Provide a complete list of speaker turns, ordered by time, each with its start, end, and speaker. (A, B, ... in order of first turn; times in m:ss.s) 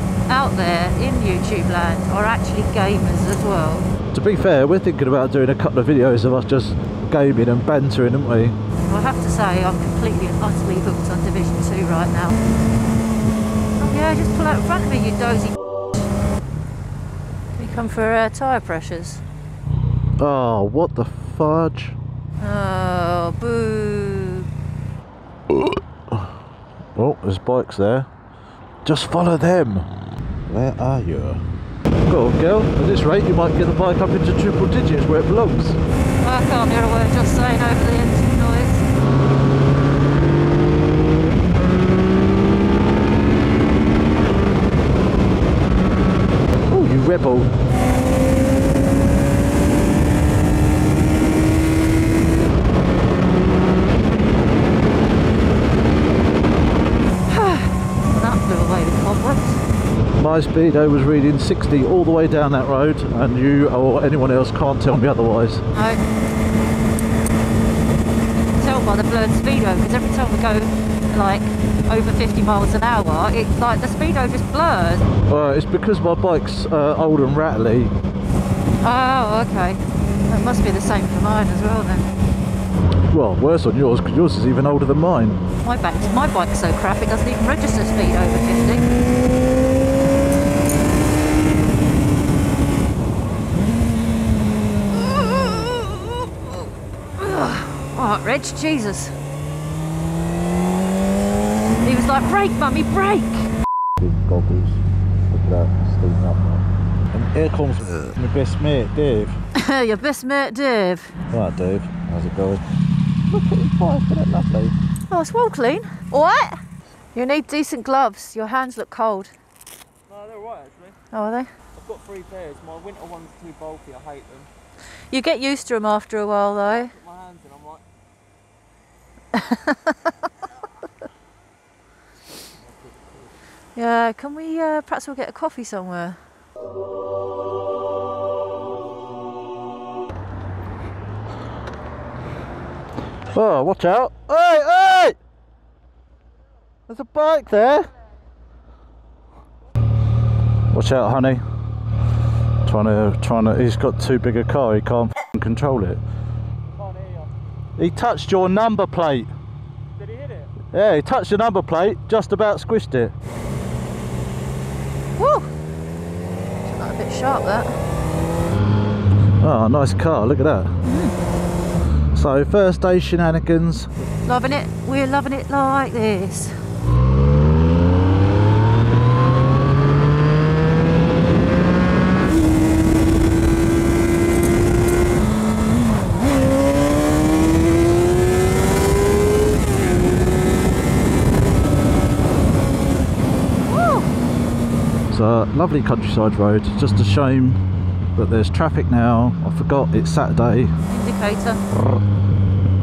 0:00.3-0:03.9 A
0:04.1-0:08.6 B
0:08.8-0:12.4 A
0:13.8-0:15.6 A
0:17.6-0:19.2 A
0:20.2-0:22.0 B
0:22.4-0:24.5 A
0:25.5-0:26.3 B
0:27.0-0:28.1 B
0:28.8-0:29.9 B
0:30.5-0:31.4 B
0:32.1-0:35.8 B
0:36.2-0:38.8 A
0:46.7-0:47.5 B
0:57.3-0:59.6 A
1:00.2-1:05.6 B
1:05.7-1:06.0 A
1:08.6-1:15.1 A
1:15.3-1:17.9 B
1:18.8-1:22.1 A
1:23.1-1:25.4 B
1:25.6-1:28.9 A
1:34.9-1:36.6 A
1:37.2-1:39.1 A
1:41.8-1:43.5 A
1:44.0-1:49.4 B
1:49.5-1:51.2 A
1:51.3-1:52.6 B
1:53.3-1:54.8 B
1:55.1-1:56.6 A
1:57.1-1:59.3 A
2:00.1-2:01.0 C
2:01.1-2:01.5 A
2:01.8-2:04.5 C
2:05.1-2:07.0 A
2:06.8-2:07.8 C
2:09.3-2:10.2 A
2:12.8-2:13.2 C
2:13.8-2:16.2 A
2:23.3-2:25.2 B
2:26.9-2:27.9 B
2:30.7-2:31.4 B
2:32.6-2:36.0 B
2:36.8-2:37.3 C
2:37.8-2:39.3 B
2:40.0-2:40.5 C
2:40.7-2:43.1 B
2:45.2-2:45.5 A
2:46.6-2:47.7 A
2:49.4-2:50.7 B
2:50.8-2:51.2 A
2:52.1-2:53.9 B
2:54.2-2:56.6 A
3:13.6-3:14.1 A
3:15.1-3:17.6 B
3:18.2-3:20.8 B
3:20.9-3:21.6 A